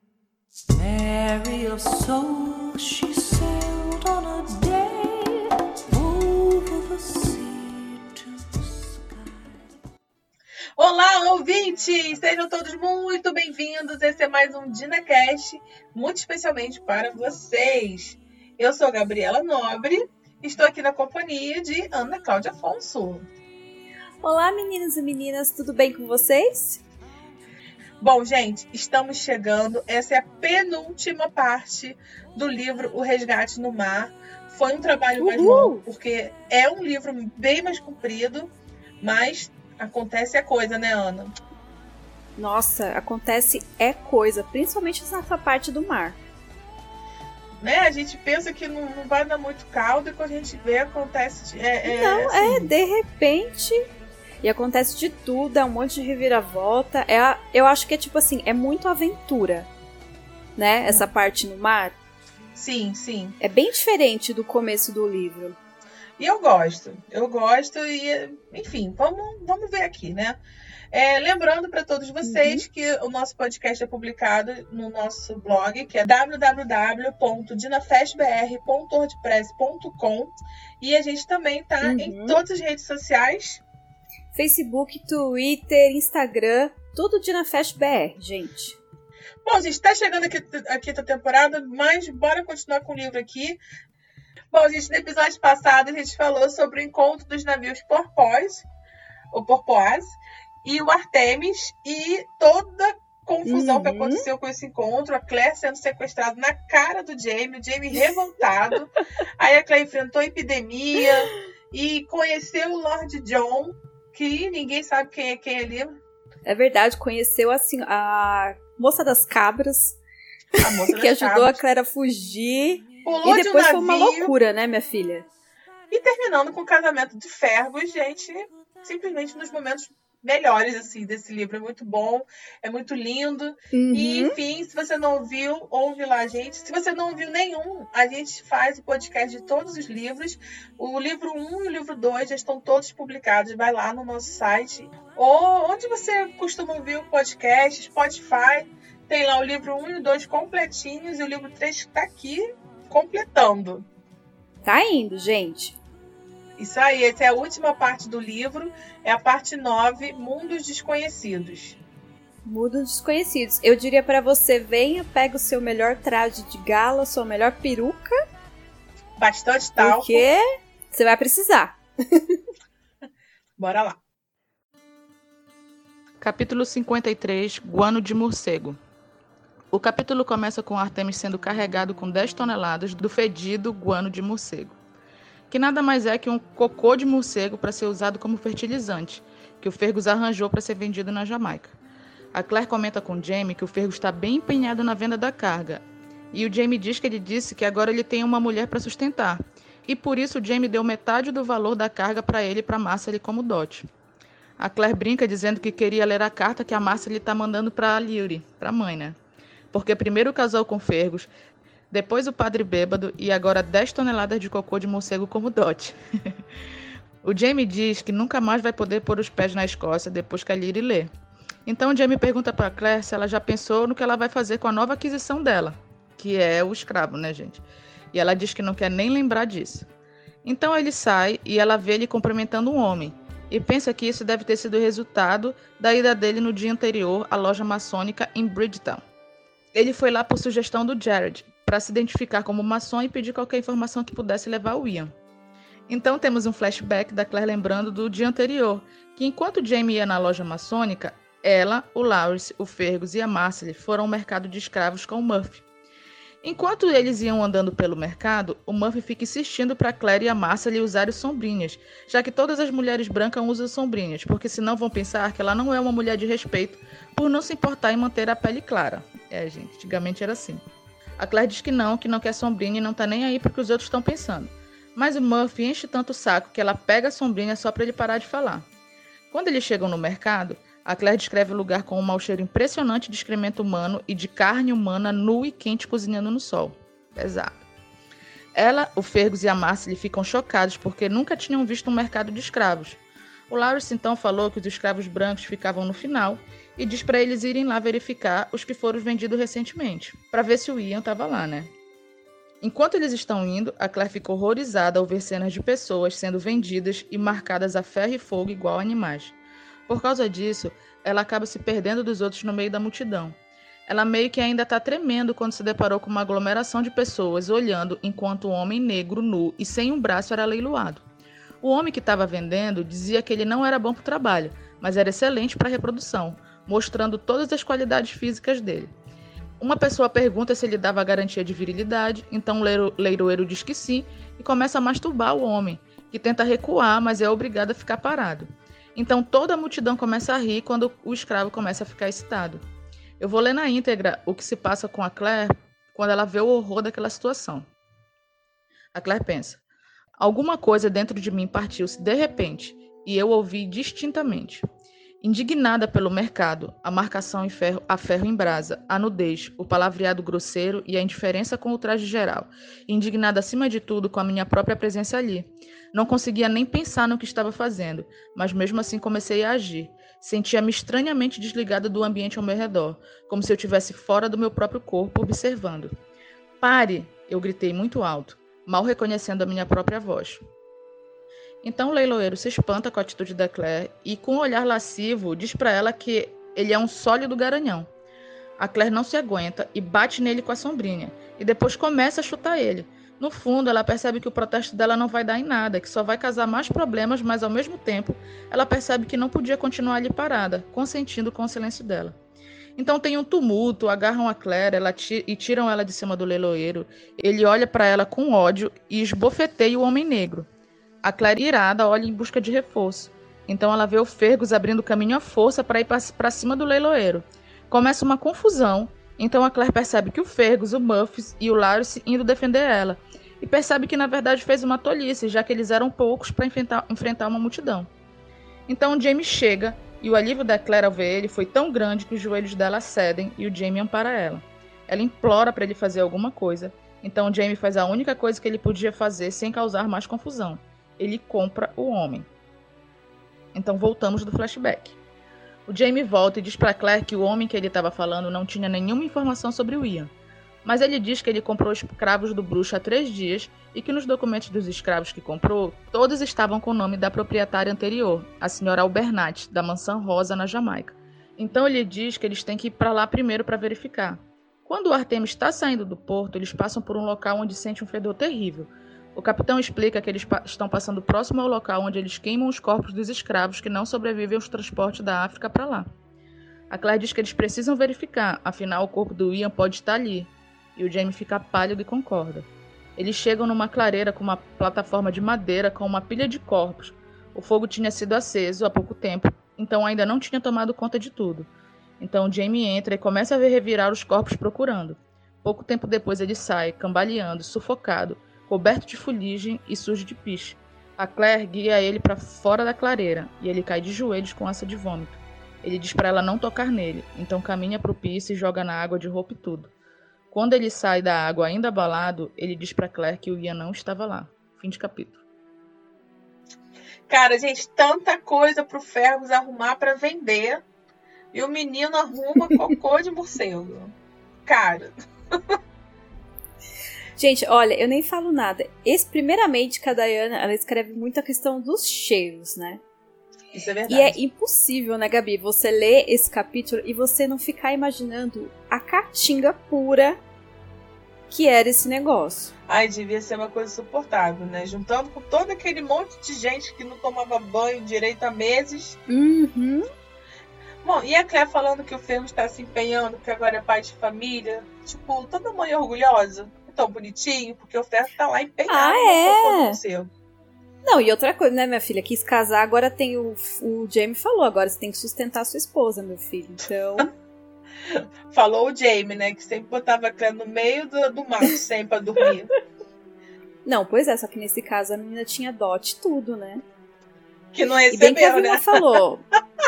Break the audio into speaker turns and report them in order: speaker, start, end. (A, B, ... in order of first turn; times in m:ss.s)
0:00.7-0:09.7 A
0:10.8-0:23.2 B
0:24.2-0:26.8 C
0:28.0-0:41.3 B
0:35.2-0:35.8 C
0:42.4-0:46.2 C
0:47.6-0:52.7 B
0:51.8-0:53.8 C
0:54.4-0:59.7 C
1:00.6-1:01.9 C
1:02.6-1:03.4 B
1:03.4-1:05.6 C
1:06.2-1:10.4 B
1:10.9-1:23.6 B
1:12.2-1:12.6 C
1:21.8-1:22.4 C
1:24.3-1:28.8 C
1:29.4-1:33.6 B
1:34.5-1:38.6 B
1:39.3-1:56.0 B
1:43.4-1:44.2 C
1:56.4-2:00.0 C
2:00.6-2:05.3 C
2:00.6-2:01.6 B
2:03.0-2:04.3 B
2:05.9-2:33.8 B
2:13.7-2:14.4 C
2:34.6-2:35.8 C
2:36.6-2:41.8 B
2:42.4-2:48.2 C
2:49.2-2:50.2 B
2:49.8-2:52.4 C
2:53.6-2:54.0 B
2:56.2-2:58.8 D
2:59.7-3:04.8 D
3:05.5-3:11.7 D
3:12.3-3:23.8 D
3:24.6-3:29.2 D
3:29.7-3:31.3 D
3:31.9-3:36.4 D
3:37.2-3:41.1 D
3:41.6-3:49.9 D
3:50.4-3:59.0 D
3:59.7-4:05.1 D
4:05.9-4:15.6 D
4:16.4-4:30.6 D
4:31.2-4:38.7 D
4:39.3-4:47.6 D
4:48.5-5:01.7 D
5:02.6-5:09.3 D
5:09.9-5:21.0 D
5:21.6-5:28.9 D
5:29.6-5:42.6 D
5:43.2-5:47.7 D
5:48.9-5:49.6 D
5:50.2-5:54.6 D
5:55.2-6:15.9 D
6:16.6-6:20.4 D
6:21.6-6:27.9 D
6:28.6-6:42.2 D
6:42.8-6:50.5 D
6:51.0-7:07.9 D
7:08.7-7:22.3 D
7:23.5-7:25.0 D
7:25.7-7:30.1 D
7:30.6-7:55.9 D
7:56.7-8:11.5 D
8:12.0-8:29.7 D
8:30.3-8:35.2 D
8:37.1-8:40.6 B
8:41.3-8:43.9 B
8:42.4-8:42.7 C
8:44.4-8:45.5 B
8:47.2-8:52.8 C
8:53.5-8:54.2 B
8:53.9-9:00.2 C
9:01.3-9:02.5 C
9:02.7-9:09.0 B
9:09.1-9:09.9 C
9:10.8-9:20.1 B
9:18.7-9:19.8 C
9:20.8-9:27.1 C
9:27.9-9:32.5 B
9:33.6-9:36.6 C
9:37.5-9:39.0 B
9:37.9-9:39.2 C